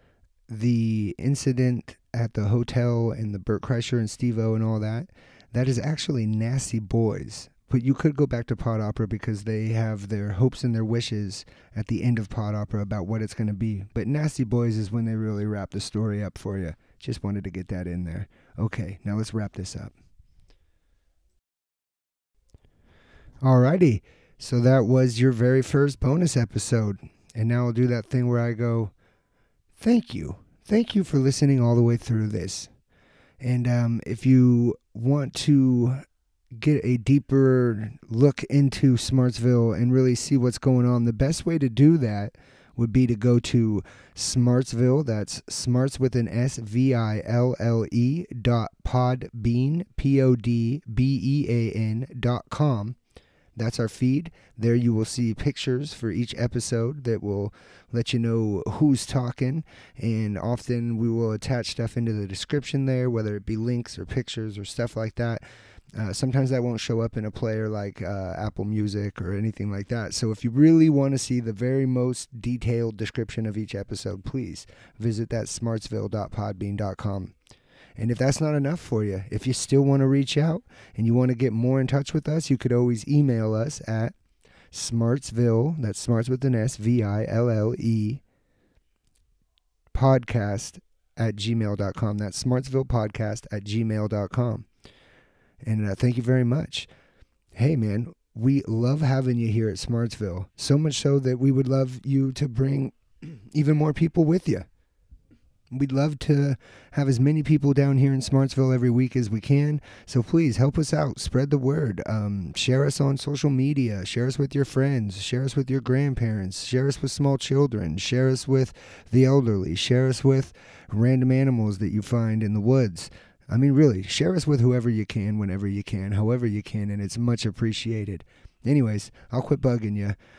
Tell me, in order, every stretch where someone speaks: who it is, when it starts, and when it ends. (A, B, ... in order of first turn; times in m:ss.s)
0:00.5-0:19.9 A
0:23.4-0:28.9 A
0:29.8-0:32.7 A
0:33.4-0:36.0 A
0:36.5-0:53.0 A
0:53.6-1:05.4 A
1:05.9-1:17.3 A
1:18.0-1:24.1 A
1:24.7-1:28.2 A
1:29.9-1:34.6 A
1:35.6-1:36.9 A
1:37.5-1:44.7 A
1:45.7-2:10.2 A